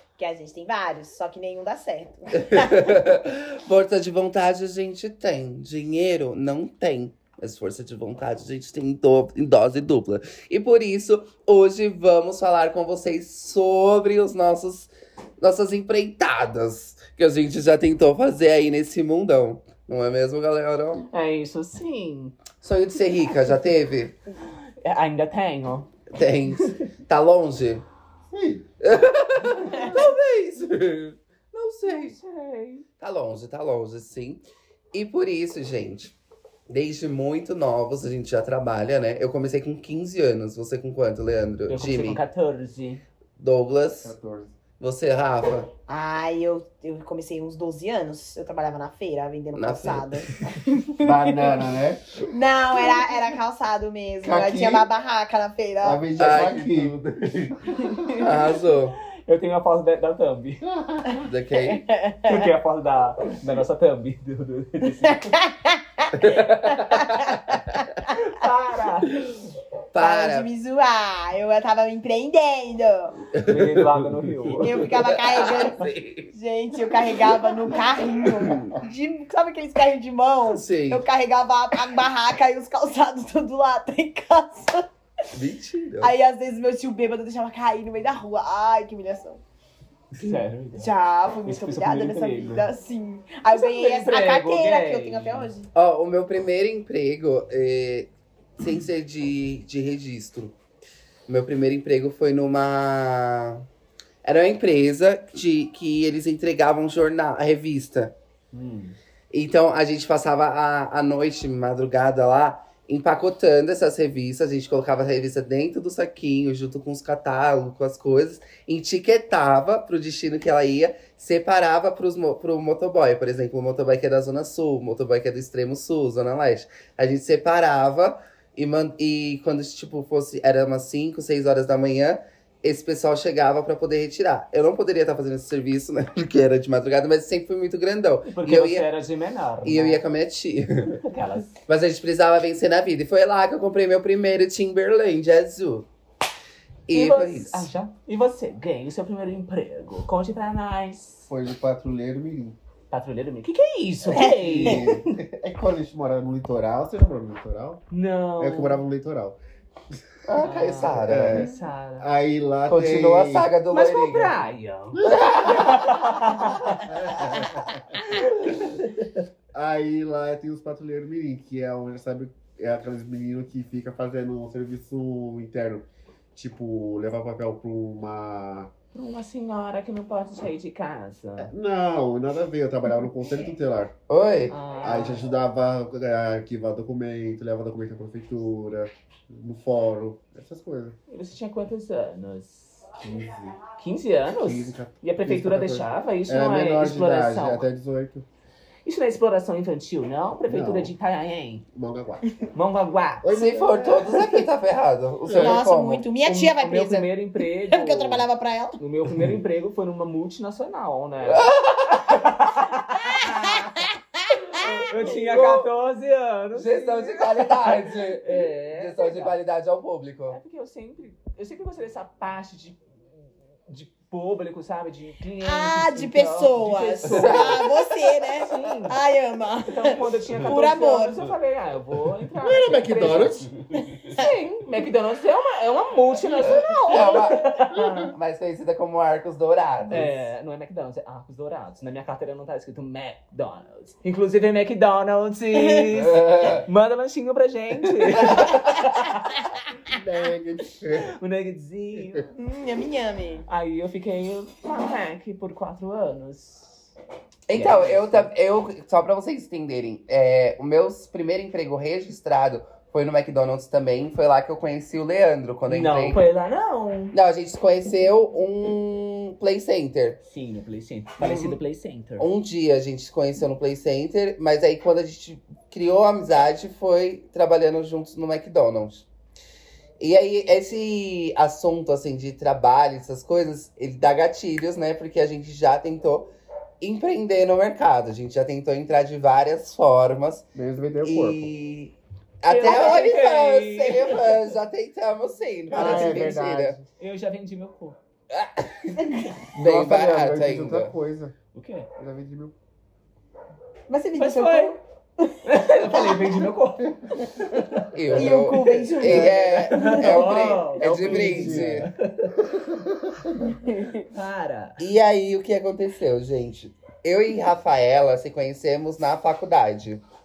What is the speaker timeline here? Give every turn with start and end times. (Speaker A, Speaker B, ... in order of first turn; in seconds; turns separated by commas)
Speaker A: 0.2-2.9, Speaker B: 2.4-21.1, Speaker C: 21.1-22.4, Speaker B: 22.6-24.2, Speaker C: 24.8-25.9, Speaker B: 26.1-27.9, Speaker C: 26.5-26.8, Speaker D: 28.3-28.6, Speaker B: 28.8-32.2, Speaker C: 31.9-32.9, Speaker B: 33.0-36.2, Speaker B: 36.7-42.2, Speaker C: 41.7-43.0, Speaker B: 43.4-44.1, Speaker D: 44.0-44.6, Speaker B: 44.8-45.7, Speaker A: 45.9-51.5, Speaker B: 49.5-50.2, Speaker D: 51.0-52.2, Speaker A: 52.3-56.0, Speaker D: 54.2-54.9, Speaker D: 55.8-57.0, Speaker B: 56.2-59.0, Speaker C: 59.2-60.6, Speaker D: 60.7-61.0, Speaker A: 61.1-62.5, Speaker B: 61.2-61.8, Speaker C: 62.2-65.3, Speaker A: 65.0-66.1, Speaker B: 66.2-67.8, Speaker A: 66.6-67.8, Speaker C: 68.1-69.2, Speaker B: 69.9-70.5, Speaker A: 70.0-73.2, Speaker B: 73.3-76.3, Speaker C: 73.5-74.9, Speaker A: 74.6-84.8, Speaker B: 78.2-78.7, Speaker B: 80.5-81.0, Speaker B: 85.3-86.2, Speaker A: 86.0-89.4, Speaker C: 90.2-90.9, Speaker A: 90.8-95.7, Speaker C: 91.5-92.7, Speaker C: 93.5-95.5, Speaker B: 95.7-100.6, Speaker B: 101.3-103.7, Speaker B: 104.2-108.2, Speaker C: 108.5-109.0, Speaker B: 109.3-138.9, Speaker C: 138.3-140.0, Speaker B: 139.6-141.0, Speaker C: 141.0-141.5, Speaker B: 141.6-145.9, Speaker B: 146.9-147.7, Speaker C: 146.9-151.3, Speaker D: 151.3-152.6, Speaker C: 152.9-155.1, Speaker A: 154.1-154.8, Speaker D: 154.2-157.8, Speaker C: 157.9-158.8, Speaker D: 158.4-159.4, Speaker B: 160.3-161.5, Speaker C: 160.4-162.1, Speaker D: 160.8-163.5, Speaker B: 162.7-164.3, Speaker C: 163.7-166.9, Speaker D: 164.9-165.2, Speaker B: 165.0-165.9, Speaker D: 166.9-167.8, Speaker B: 167.2-167.5, Speaker D: 169.5-178.7, Speaker C: 178.9-181.5, Speaker D: 181.4-183.9, Speaker B: 184.1-184.6, Speaker C: 184.5-185.3, Speaker D: 184.8-191.0, Speaker C: 191.1-192.9, Speaker D: 193.0-193.6, Speaker C: 193.8-197.7, Speaker D: 194.4-198.3, Speaker C: 198.8-201.7, Speaker D: 200.5-200.9, Speaker D: 201.7-202.3, Speaker C: 202.5-203.3, Speaker D: 203.2-204.2, Speaker B: 203.3-206.0, Speaker C: 205.3-205.6, Speaker A: 205.4-207.1, Speaker C: 206.2-208.3, Speaker A: 207.7-208.8, Speaker C: 208.8-213.8, Speaker B: 211.3-212.3, Speaker A: 212.9-215.2, Speaker B: 214.6-215.7, Speaker C: 214.9-219.3, Speaker B: 216.5-220.4, Speaker C: 220.3-222.8, Speaker C: 223.7-227.7, Speaker A: 225.4-231.3, Speaker B: 227.1-227.9, Speaker C: 228.3-229.0, Speaker C: 229.7-233.5, Speaker D: 232.4-233.5, Speaker C: 234.1-238.1, Speaker A: 236.3-237.3, Speaker B: 236.4-240.3, Speaker C: 239.9-249.5, Speaker B: 245.9-246.6, Speaker B: 248.3-248.7, Speaker D: 249.9-251.1, Speaker C: 251.2-252.3, Speaker A: 252.3-253.5, Speaker C: 253.5-256.9, Speaker B: 257.5-266.2, Speaker C: 257.5-258.3, Speaker C: 265.7-267.1, Speaker B: 267.1-270.2, Speaker C: 270.3-272.3, Speaker B: 271.2-271.6, Speaker B: 272.2-279.1, Speaker B: 280.0-286.3, Speaker B: 286.8-290.5, Speaker D: 290.6-291.5, Speaker B: 291.0-296.8, Speaker C: 292.5-294.4, Speaker D: 295.7-296.8, Speaker C: 295.7-296.2, Speaker C: 297.0-298.0, Speaker B: 298.3-299.0, Speaker A: 299.0-299.4, Speaker B: 299.6-300.9, Speaker D: 299.6-301.3, Speaker C: 301.5-301.9, Speaker D: 302.0-302.6, Speaker A: 303.9-305.3, Speaker C: 304.1-304.8, Speaker C: 305.4-307.9, Speaker A: 305.9-306.3, Speaker B: 307.9-311.9, Speaker A: 308.1-310.3, Speaker C: 308.5-312.4, Speaker D: 309.1-309.4, Speaker D: 310.8-311.9, Speaker D: 312.4-313.5, Speaker A: 313.6-314.1, Speaker C: 314.1-314.8, Speaker B: 314.8-320.0